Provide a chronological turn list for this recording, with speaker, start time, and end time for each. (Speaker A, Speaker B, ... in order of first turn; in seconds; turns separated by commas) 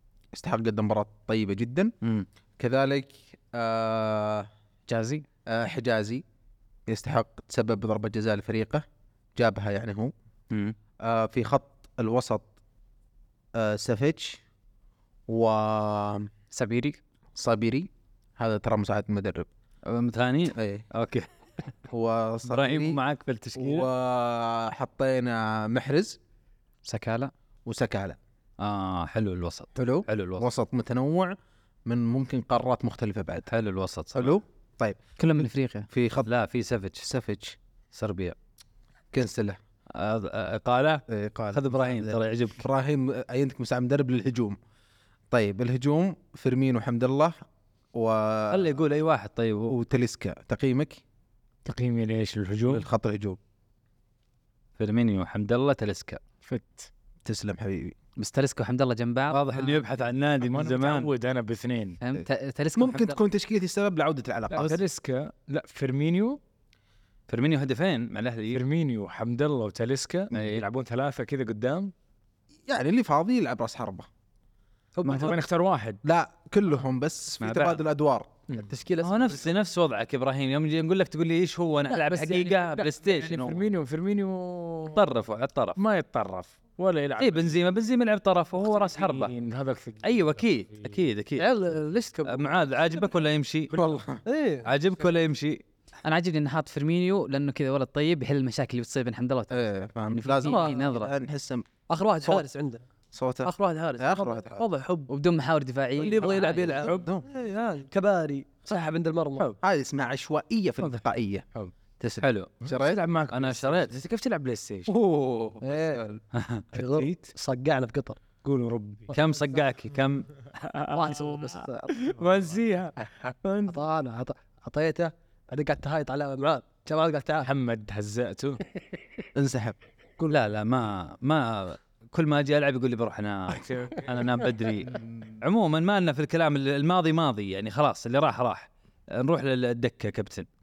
Speaker A: 0.3-1.9, Speaker B: 2.0-2.3, Speaker A: 2.6-4.5, Speaker C: 4.9-5.3, Speaker A: 5.5-6.2, Speaker A: 6.9-8.8, Speaker A: 9.4-10.1, Speaker B: 10.5-10.8, Speaker A: 11.0-12.5, Speaker A: 13.6-14.4, Speaker A: 15.3-16.3, Speaker C: 16.5-17.0, Speaker A: 17.4-19.5, Speaker B: 19.9-21.3, Speaker A: 20.6-20.9, Speaker A: 21.9-23.0, Speaker B: 22.5-23.9, Speaker A: 23.6-26.2, Speaker C: 26.9-27.3, Speaker A: 27.7-28.2, Speaker B: 28.6-30.5, Speaker A: 29.8-33.5, Speaker B: 33.5-34.4, Speaker A: 34.1-35.0, Speaker C: 35.2-35.9, Speaker A: 35.9-36.3, Speaker B: 36.3-37.0, Speaker A: 37.0-37.6, Speaker B: 37.9-38.4, Speaker A: 39.1-39.6, Speaker B: 39.9-42.6, Speaker A: 41.1-44.6, Speaker A: 45.3-47.4, Speaker A: 47.9-48.8, Speaker B: 48.5-49.8, Speaker A: 49.7-51.0, Speaker D: 51.6-52.9, Speaker A: 52.7-53.4, Speaker B: 54.8-56.2, Speaker D: 56.4-56.9, Speaker A: 57.2-58.0, Speaker C: 58.2-59.4, Speaker B: 59.3-61.1, Speaker D: 60.4-62.0, Speaker C: 62.0-63.2, Speaker A: 62.8-64.8, Speaker D: 64.5-66.4, Speaker B: 67.3-68.6, Speaker D: 68.5-71.9, Speaker B: 70.3-70.7, Speaker A: 72.7-74.1, Speaker D: 75.0-76.0, Speaker B: 75.0-75.4, Speaker A: 76.0-78.5, Speaker B: 77.4-77.8, Speaker E: 78.6-79.5, Speaker B: 79.0-83.6, Speaker D: 82.0-85.0, Speaker B: 84.9-85.8, Speaker D: 85.8-87.6, Speaker B: 87.2-89.3, Speaker D: 88.6-90.9, Speaker B: 90.0-91.5, Speaker E: 91.4-92.5, Speaker B: 92.2-93.8, Speaker A: 93.7-94.2, Speaker E: 94.2-94.7, Speaker B: 94.6-95.6, Speaker C: 96.0-99.5, Speaker A: 99.5-101.7, Speaker C: 100.1-101.1, Speaker E: 100.5-100.8, Speaker E: 101.9-102.8, Speaker A: 103.1-104.6, Speaker E: 103.4-105.1, Speaker C: 105.1-106.9, Speaker E: 106.0-109.5, Speaker A: 106.8-107.2, Speaker A: 109.6-111.5, Speaker A: 112.0-113.0, Speaker B: 112.2-112.6, Speaker D: 112.7-114.9, Speaker B: 113.3-113.9, Speaker A: 114.9-116.2, Speaker E: 115.6-116.0, Speaker B: 116.3-116.7, Speaker E: 116.7-118.2, Speaker D: 116.8-117.3, Speaker D: 118.4-119.2, Speaker B: 119.1-120.3, Speaker D: 120.5-123.8, Speaker E: 120.9-122.0, Speaker E: 123.7-127.5, Speaker D: 127.4-128.6, Speaker A: 129.3-129.8, Speaker B: 130.3-140.5, Speaker D: 133.7-134.1